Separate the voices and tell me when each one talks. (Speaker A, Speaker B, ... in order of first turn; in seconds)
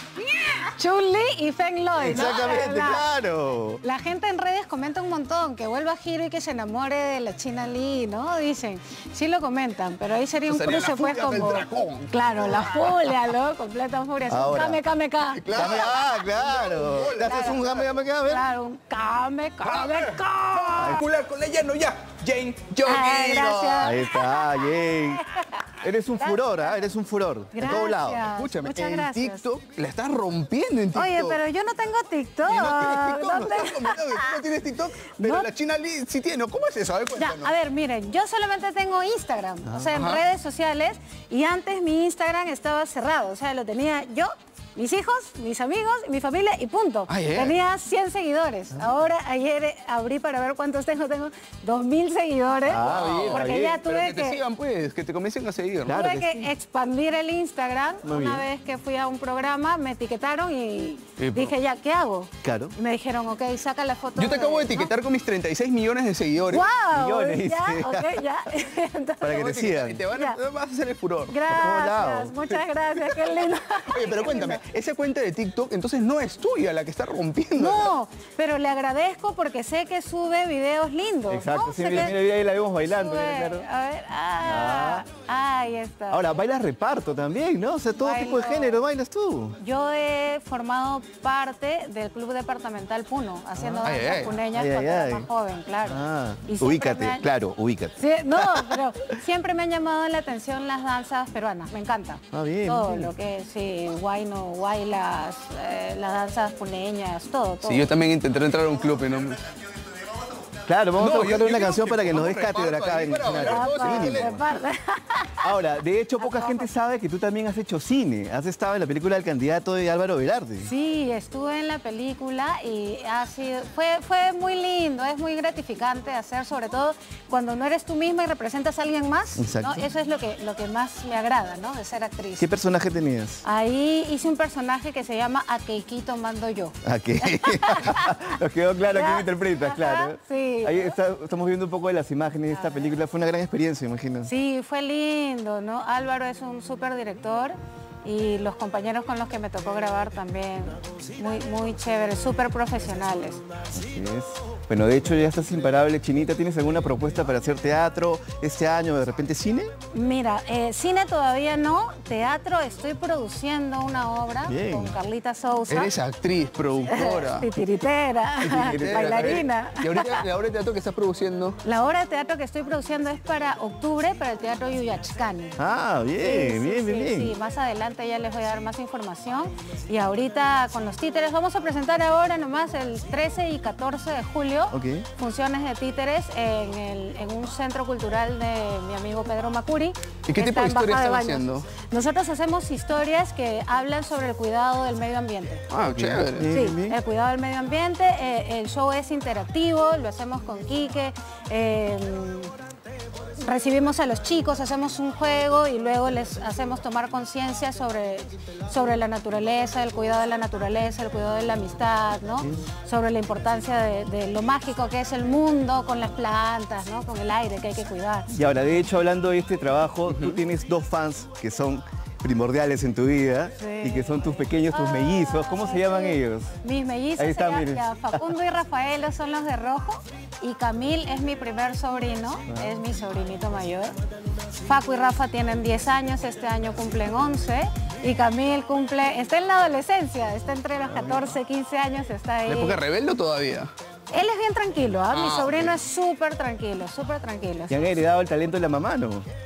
Speaker A: 0.6-3.1, 3.8-15.8, 17.2-17.5, 18.3-21.0, 22.8-26.7, 27.5-29.5, 30.9-34.4, 35.2-35.5, 37.1-54.4, 55.9-64.9, 66.5-69.5, 70.1-70.4, 71.3-74.6, 77.6-82.2, 82.8-86.3, 88.0-88.8, 89.6-97.2, 98.0-107.9, 113.4-115.5, 116.2-116.7, 120.6-132.5, 133.4-138.2, 138.9-140.9, 144.2-153.4, 159.9-165.9, 166.9-170.2, 171.6-175.6, 176.2-195.7, 196.5-202.5, 203.4-218.3, 223.6-224.2, 224.7-233.9, 234.6-242.8, 244.1-248.0
Speaker B: 2.0-3.8, 14.3-14.8, 15.5-18.4, 20.8-21.0, 23.8-28.3, 52.7-53.8, 55.9-56.5, 58.0-58.5, 62.4-62.8, 66.9-68.3, 69.2-70.1, 71.5-72.4, 81.3-83.7, 84.4-85.1, 86.1-89.6, 93.6-93.9, 94.5-95.3, 95.8-98.8, 102.3-103.1, 110.7-114.4, 115.4-120.7, 129.4-129.9, 132.4-133.4, 136.8-144.3, 153.7-159.7, 164.5-165.0, 168.5-169.2, 175.6-177.3, 184.7-185.1, 195.9-197.0, 218.3-226.6, 227.2-228.3, 232.5-232.8, 240.9-241.3, 247.7-249.3
Speaker C: 10.5-12.9, 15.4-17.9, 19.7-24.0, 27.6-31.4, 32.5-37.5, 39.9-40.2, 47.1-47.6, 52.7-56.0, 61.2-61.5, 64.2-66.7, 69.3-71.4, 73.8-77.9, 93.8-94.4, 107.6-109.5, 111.0-114.4, 165.7-167.5, 168.4-171.6, 190.3-191.7, 195.7-196.5, 242.5-243.7, 245.1-245.8